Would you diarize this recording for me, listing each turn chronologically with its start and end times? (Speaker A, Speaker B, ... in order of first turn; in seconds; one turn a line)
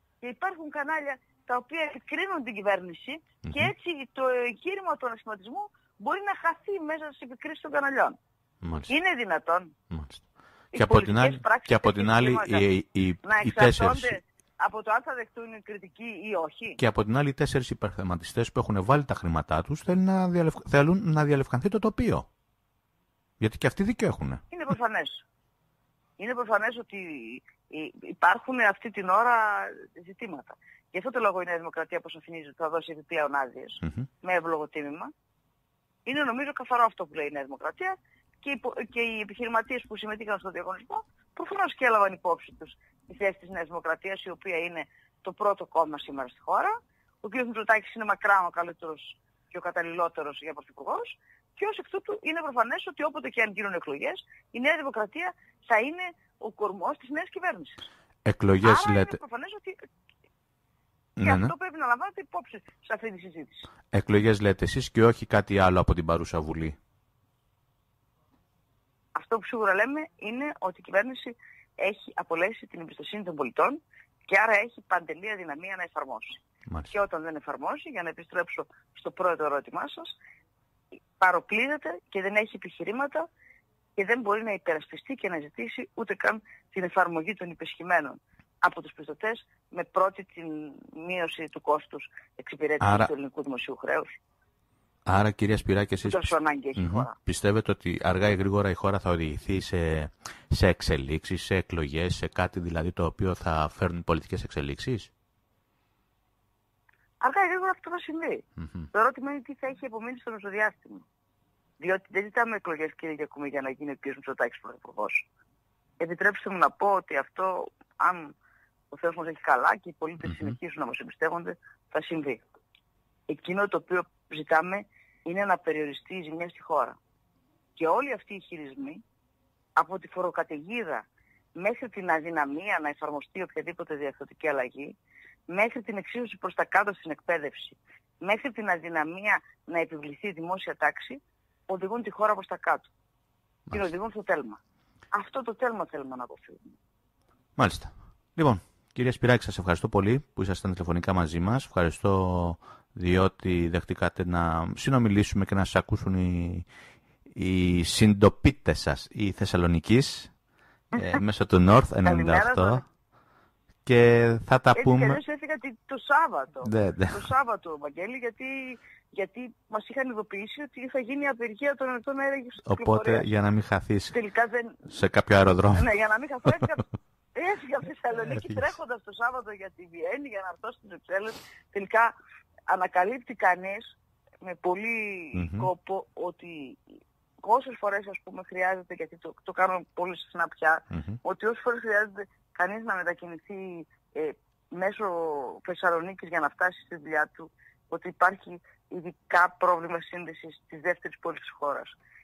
Speaker A: 0.2-8.2
Speaker B: 3.4-3.7
Speaker B: 8.6-8.9
Speaker A: 8.9-9.7
Speaker B: 9.9-14.2
Speaker A: 10.7-12.7
Speaker A: 13.2-16.8
Speaker B: 16.8-22.3
Speaker B: 23.4-24.4
Speaker A: 24.5-25.2
Speaker A: 26.2-35.1
Speaker A: 36.0-57.9
Speaker B: 58.2-59.2
Speaker A: 58.6-59.8
Speaker B: 61.2-61.5
Speaker A: 61.2-63.7
Speaker B: 63.9-66.8
Speaker A: 69.1-80.2
Speaker B: 76.7-76.9
Speaker A: 81.2-83.3
Speaker A: 84.0-94.2
Speaker B: 92.8-93.1
Speaker B: 95.0-105.1
Speaker A: 96.0-97.1
Speaker A: 107.2-111.0
Speaker B: 108.6-108.9
Speaker A: 111.8-115.2
Speaker A: 116.0-118.3
Speaker A: 118.9-122.4
Speaker B: 120.3-120.5
Speaker A: 123.3-127.0
Speaker A: 127.8-129.0
Speaker A: 129.8-135.0
Speaker A: 135.5-142.9
Speaker A: 143.7-144.6
Speaker A: 145.1-146.7
Speaker B: 147.6-156.7
Speaker B: 157.3-160.3
Speaker B: 160.9-162.8
Speaker A: 160.9-161.2
Speaker A: 162.0-162.8
Speaker B: 163.8-165.2
Speaker A: 164.7-173.3
Speaker B: 166.6-167.3
Speaker B: 172.6-174.2
Speaker A: 174.1-174.9
Speaker B: 174.9-175.9
Speaker A: 175.7-182.1
Speaker A: 182.7-186.8
Speaker B: 185.3-185.7
Speaker A: 187.4-202.0
Speaker B: 190.9-191.2